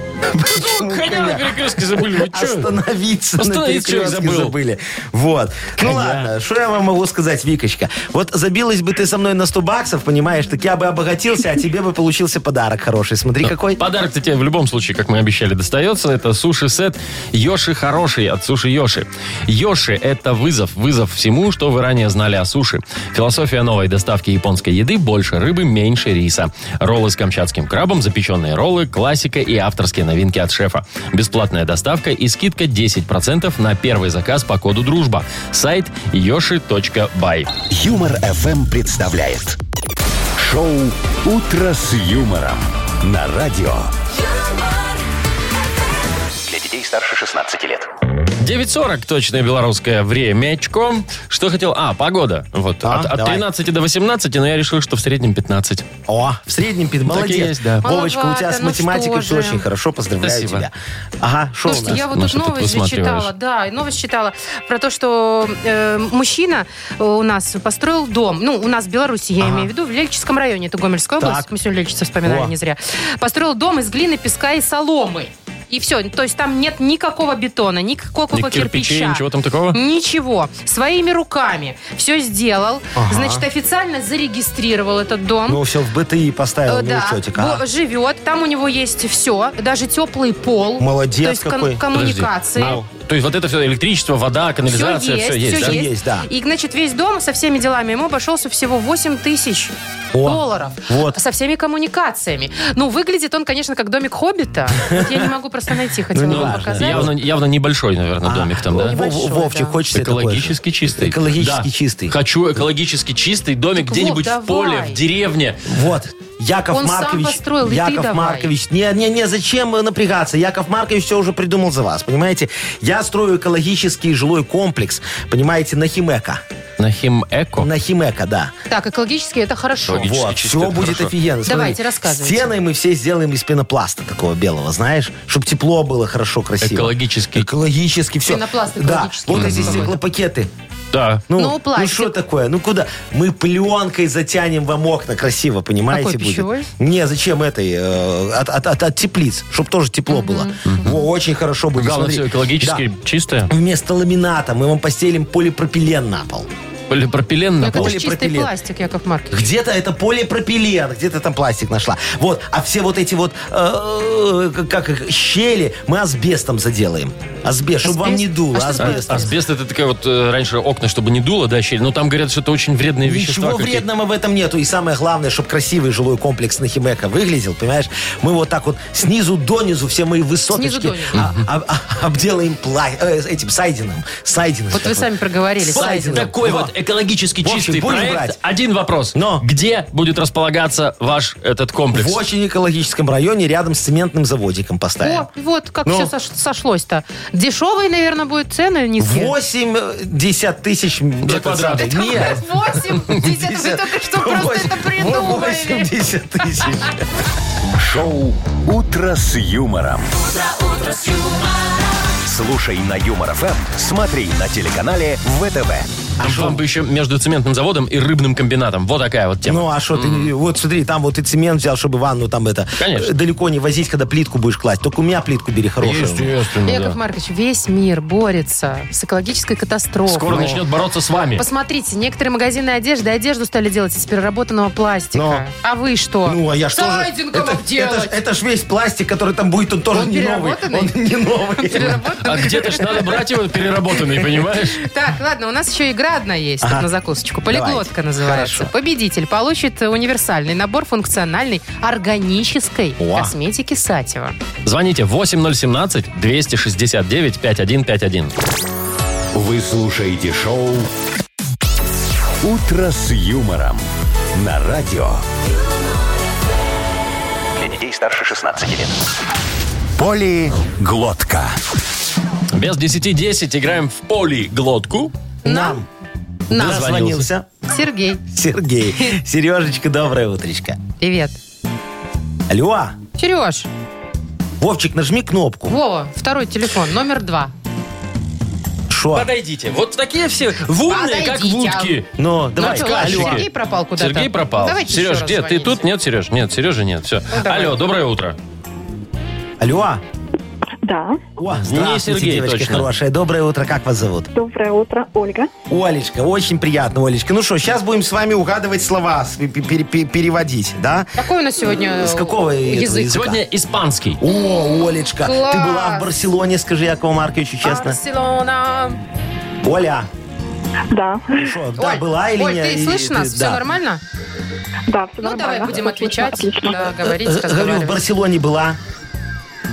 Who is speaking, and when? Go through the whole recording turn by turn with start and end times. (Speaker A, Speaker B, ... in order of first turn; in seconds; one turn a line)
Speaker A: 0.3-13.8
Speaker B: 0.4-2.7
Speaker B: 3.4-4.6
Speaker B: 5.8-6.3
Speaker B: 13.4-37.5
Speaker C: 37.7-39.6
Speaker C: 40.4-43.9
Speaker D: 46.5-47.9
Speaker B: 48.4-55.9
Speaker A: 52.8-53.5
Speaker A: 56.1-62.0
Speaker B: 57.1-57.8
Speaker E: 57.8-59.7
Speaker B: 60.2-60.7
Speaker E: 61.6-85.6
Speaker B: 61.8-63.3
Speaker A: 69.4-69.7
Speaker A: 71.2-71.5
Speaker A: 72.2-72.5
Speaker B: 78.3-79.8
Speaker A: 83.0-83.5
Speaker A: 85.5-87.6
Speaker E: 86.7-92.8
Speaker A: 90.8-91.8
Speaker B: 91.9-95.8
Speaker A: 92.6-92.9
Speaker E: 94.7-107.1
Speaker A: 95.5-96.3
Speaker A: 100.1-101.2
Speaker A: 104.7-105.3
Speaker A: 106.1-107.2
Speaker B: 106.3-109.0
Speaker A: 108.2-112.2
Speaker E: 108.8-109.8
Speaker B: 109.9-115.6
Speaker E: 113.8-115.0
Speaker A: 115.7-126.4
Speaker E: 116.7-118.5
Speaker B: 126.8-127.7
Speaker A: 127.6-128.5
Speaker E: 128.7-130.1
Speaker B: 129.9-131.2
Speaker A: 130.0-140.5
Speaker E: 131.4-132.6
Speaker B: 136.6-137.5
Speaker E: 138.2-140.0
Speaker B: 139.3-139.9
Speaker B: 140.9-141.2
Speaker A: 141.3-152.8
Speaker E: 141.3-142.2
Speaker E: 145.9-146.7
Speaker E: 150.1-150.9
Speaker B: 151.8-153.5
Speaker A: 153.5-156.5
Speaker B: 156.9-158.0
Speaker E: 157.6-159.4
Speaker A: 157.7-158.5
Speaker A: 159.3-169.3
Speaker E: 167.8-169.3
Speaker B: 168.8-173.8
Speaker A: 173.0-185.0
Speaker E: 180.5-181.2
Speaker B: 181.2-181.4
Speaker E: 184.7-186.3
Speaker A: 185.6-186.7
Speaker B: 185.7-192.2
Speaker A: 187.4-188.4
Speaker A: 189.1-189.4
Speaker A: 191.9-195.3
Speaker E: 195.0-199.3
Speaker A: 195.8-196.1
Speaker A: 199.0-202.5
Speaker B: 201.2-202.4
Speaker E: 201.8-205.9
Speaker A: 203.0-207.0
Speaker C: 207.8-210.2
Speaker C: 212.2-215.9
Speaker A: 216.2-216.6
Speaker B: 216.2-220.3
Speaker A: 219.4-226.4
Speaker B: 222.8-223.1
Speaker B: 225.8-227.0
Speaker E: 226.7-230.6
Speaker B: 230.1-231.4
Speaker A: 230.3-230.6
Speaker E: 231.4-238.2
Speaker A: 235.1-235.4
Speaker A: 236.3-242.0
Speaker E: 239.9-240.9
Speaker E: 241.6-243.0
Speaker B: 241.8-244.8
Speaker E: 244.8-254.3
Speaker A: 246.6-246.9
Speaker A: 247.5-248.7
Speaker A: 253.0-253.3
Speaker B: 254.7-258.3
Speaker C: 259.3-260.9
Speaker C: 262.4-265.2
Speaker D: 267.6-269.0
Speaker C: 270.0-271.6
Speaker B: 272.5-275.1
Speaker E: 275.4-275.8
Speaker A: 275.4-275.9
Speaker A: 276.5-277.5
Speaker B: 276.5-277.3
Speaker E: 277.7-278.2
Speaker A: 278.3-280.8
Speaker E: 281.0-281.4
Speaker A: 282.5-283.0
Speaker E: 283.2-283.7
Speaker A: 284.6-285.8
Speaker E: 285.7-287.5
Speaker A: 288.9-289.3
Speaker B: 289.1-298.4
Speaker E: 290.9-292.0
Speaker A: 292.2-293.4
Speaker E: 292.6-295.9
Speaker E: 297.3-297.8
Speaker A: 299.6-300.0
Speaker F: 300.8-301.2
Speaker A: 301.4-304.3
Speaker B: 301.6-302.9
Speaker F: 304.3-305.5
Speaker A: 305.7-311.1
Speaker E: 311.2-313.1
Speaker A: 311.9-313.4
Speaker B: 313.1-314.2
Speaker A: 314.2-318.0
Speaker E: 315.0-316.1
Speaker E: 317.6-319.0
Speaker A: 319.6-320.1
Speaker F: 320.9-321.5
Speaker A: 321.4-323.6
Speaker E: 321.8-324.0
Speaker F: 324.9-326.9
Speaker E: 325.2-328.0
Speaker A: 327.0-328.8